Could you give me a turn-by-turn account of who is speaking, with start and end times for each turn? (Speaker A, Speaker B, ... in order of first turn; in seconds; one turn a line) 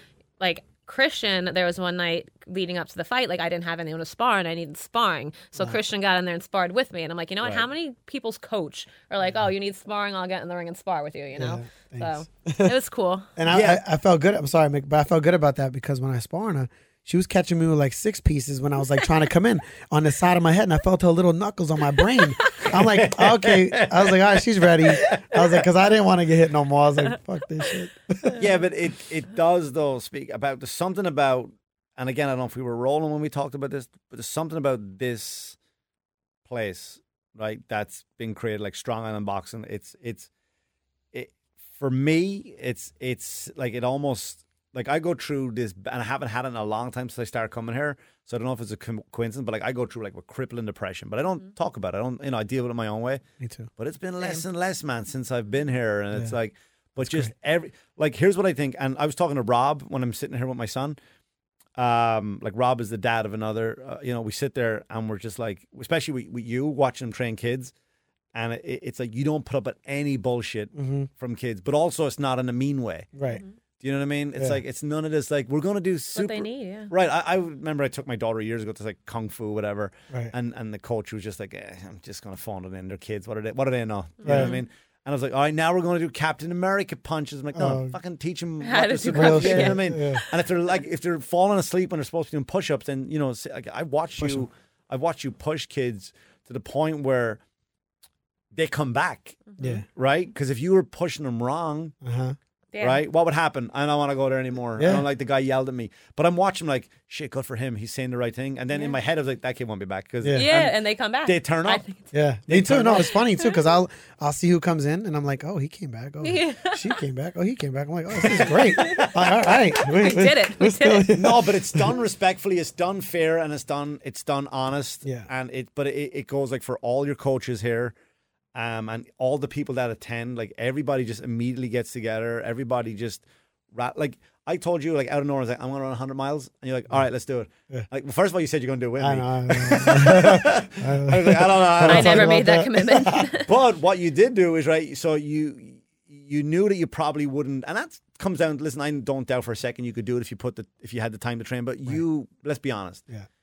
Speaker A: 0.4-13.3
Speaker B: 11.4-12.8
Speaker B: 13.3-28.4
Speaker C: 13.5-13.8
Speaker C: 22.6-25.6
Speaker C: 28.4-35.6
Speaker C: 36.5-40.3
Speaker C: 41.1-53.2
Speaker B: 53.4-53.7
Speaker C: 53.8-61.0
Speaker B: 57.0-57.3
Speaker C: 61.8-67.7
Speaker C: 68.3-73.1
Speaker B: 70.7-71.1
Speaker B: 73.1-73.4
Speaker A: 73.3-73.5
Speaker C: 73.8-97.4
Speaker A: 76.1-76.9
Speaker A: 84.2-84.6
Speaker B: 84.2-84.5
Speaker B: 87.5-87.9
Speaker A: 88.6-90.4
Speaker B: 89.1-90.2
Speaker B: 94.2-94.4
Speaker C: 98.5-101.9
Speaker A: 99.5-99.8
Speaker B: 99.6-99.8
Speaker B: 102.0-102.3
Speaker A: 102.7-103.0
Speaker C: 102.8-111.8
Speaker B: 104.8-105.0
Speaker B: 110.2-110.5
Speaker A: 110.3-112.1
Speaker B: 112.1-121.9
Speaker C: 112.5-113.2
Speaker A: 113.0-113.6
Speaker A: 116.2-117.0
Speaker A: 118.2-121.2
Speaker C: 118.3-119.5
Speaker C: 121.1-127.9
Speaker C: 128.5-142.4
Speaker B: 139.0-143.3
Speaker A: 141.8-143.5
Speaker C: 143.4-153.0